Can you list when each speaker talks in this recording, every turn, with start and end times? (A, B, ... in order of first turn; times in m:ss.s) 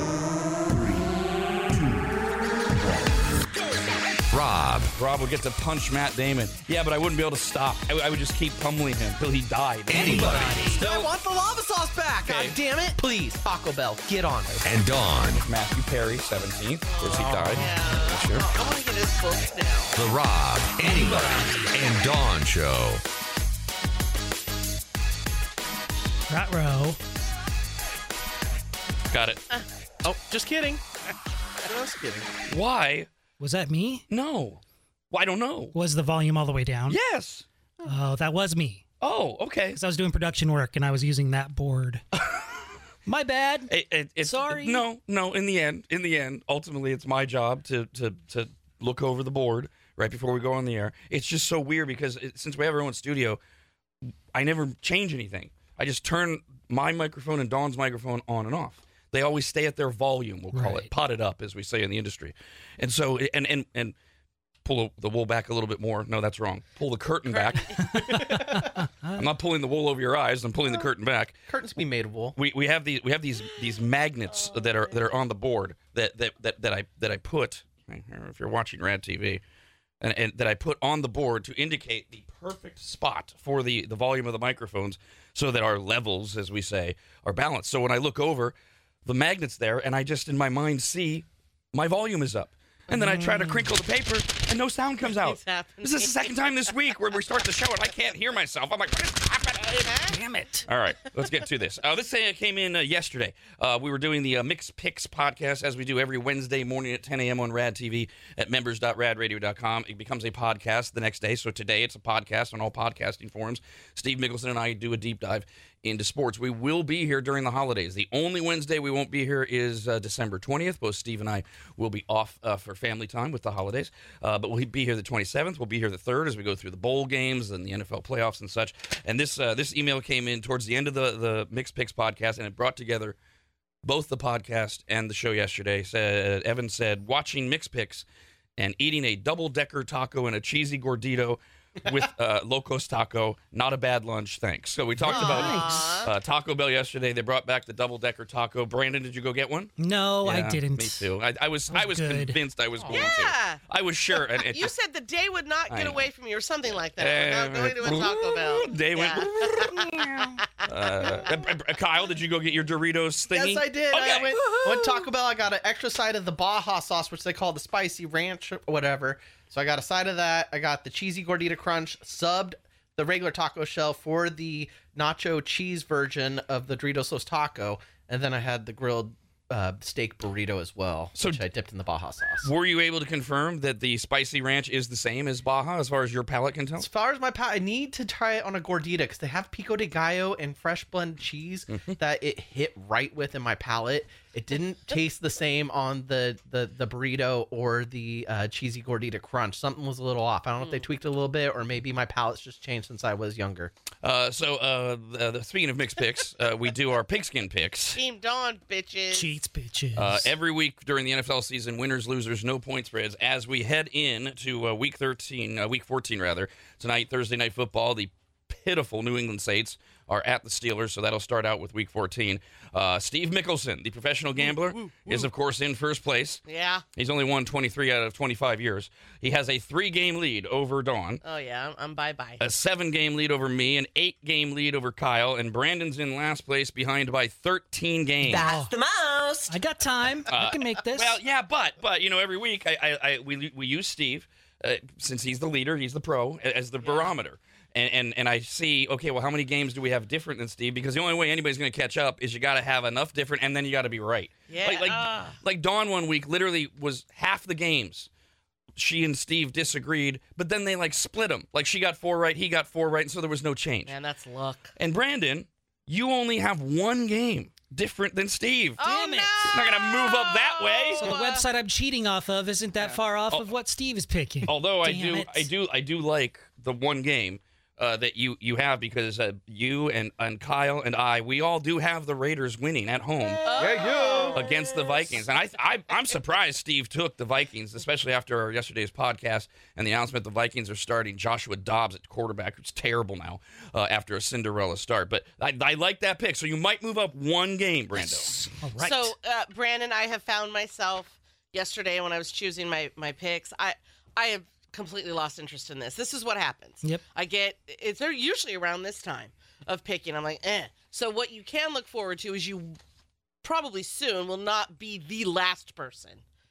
0:02.8-0:03.1 A
0:04.3-0:04.9 B
0:04.9-0:11.1 A
0:09.9-0:10.8 B
0:09.9-0:14.6 C
0:12.2-0:12.6 A
0:14.5-0:18.5 A
0:14.6-0:15.4 B
0:16.9-0:20.0 D
0:17.1-0:17.7 C
0:19.9-0:23.0 B
0:26.3-0:27.0 E
0:29.1-0:29.4 A
0:30.0-0:30.8 C
0:31.6-0:32.3 C
0:32.5-0:33.1 A
0:33.4-0:34.0 E
0:34.1-0:35.7 A
0:35.7-0:37.0 E
0:36.9-0:37.4 A
0:37.8-0:38.8 E
0:39.0-0:39.8 A
0:39.7-0:42.0 E
0:43.0-0:44.8 E
0:43.7-0:53.4 A
0:54.3-1:03.9 A
1:00.5-1:00.9 E
1:04.6-1:11.4 A
1:07.3-1:08.0 D
1:07.8-1:09.2 E
1:11.5-1:12.4 C
1:12.4-1:19.4 A
1:14.3-1:15.0 D
1:20.0-1:40.0 A
1:32.9-1:33.7 E
1:35.0-1:36.7 D
1:39.7-1:40.1 D
1:40.1-1:40.7 E
1:40.7-2:13.2 A
2:13.8-2:18.0 A
2:18.6-2:34.7 A
2:25.0-2:25.9 E
2:25.2-2:26.1 D
2:29.8-2:31.1 E
2:31.7-2:32.4 E
2:32.9-2:33.6 D
2:34.3-2:41.2 D
2:35.7-2:36.1 A
2:36.7-2:45.1 A
2:43.3-3:02.5 C
3:01.1-3:01.4 A
3:02.4-3:06.9 A
3:06.8-3:23.7 C
3:11.7-3:12.0 A
3:24.0-3:28.0 A
3:27.9-3:29.3 D
3:29.1-3:30.3 E
3:30.0-3:46.4 A
3:46.4-3:46.8 D
3:47.0-3:51.2 A
3:51.2-3:52.4 D
3:52.4-3:58.5 A
3:58.4-3:58.7 E
3:59.5-4:01.2 E
4:00.3-4:18.1 A
4:06.8-4:07.1 D
4:14.5-4:15.4 D
4:18.8-4:23.9 A
4:23.8-4:24.7 D
4:24.8-4:31.2 A
4:28.8-4:31.4 D
4:28.8-4:29.6 E
4:31.0-4:35.5 E
4:34.4-4:43.6 A
4:43.4-4:45.0 D
4:43.6-4:44.4 C
4:44.3-4:58.4 A
4:58.1-4:59.1 E
4:58.8-5:12.8 D
5:13.4-5:16.2 D